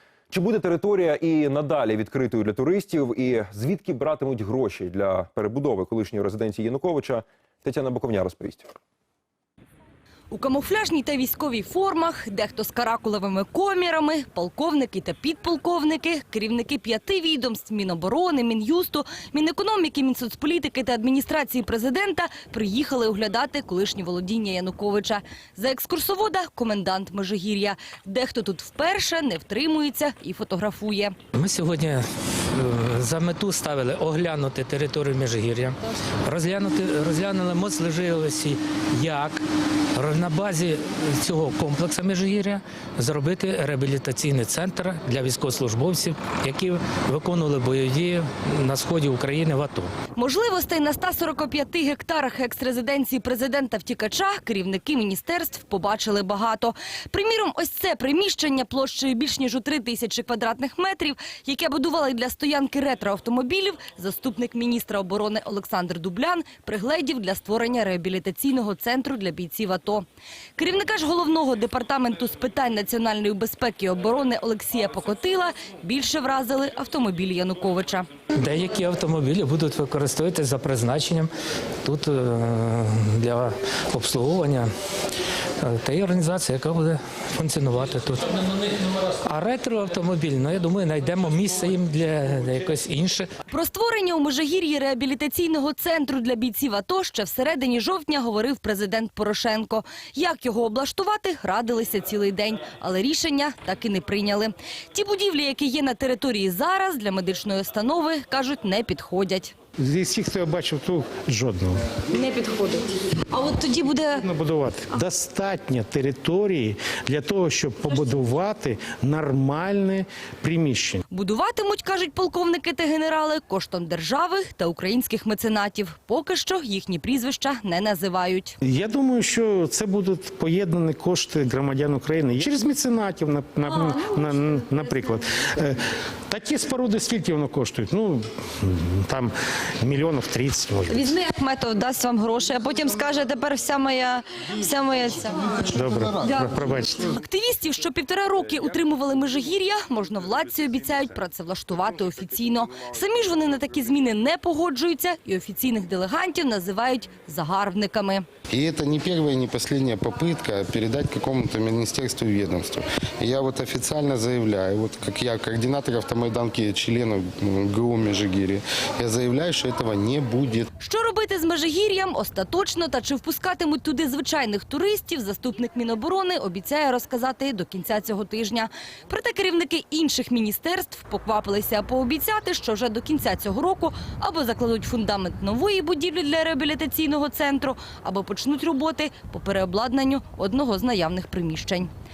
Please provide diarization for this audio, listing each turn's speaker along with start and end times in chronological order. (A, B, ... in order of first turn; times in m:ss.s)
0:00.3-0:08.7 A
0:10.3-0:31.2 B
0:31.3-0:49.9 C
0:50.2-1:10.0 B
1:10.6-1:18.1 B
1:18.4-1:21.3 C
1:21.8-1:24.7 C
1:25.6-1:33.3 C
1:33.5-1:49.5 B
1:49.8-1:51.8 D
1:52.1-1:54.2 B
1:54.1-2:01.0 D
2:01.1-2:08.6 B
2:08.6-2:21.0 D
2:20.9-2:25.7 B
2:25.6-2:26.9 D
2:26.2-2:38.2 B
2:38.5-2:50.7 E
2:50.8-3:11.9 B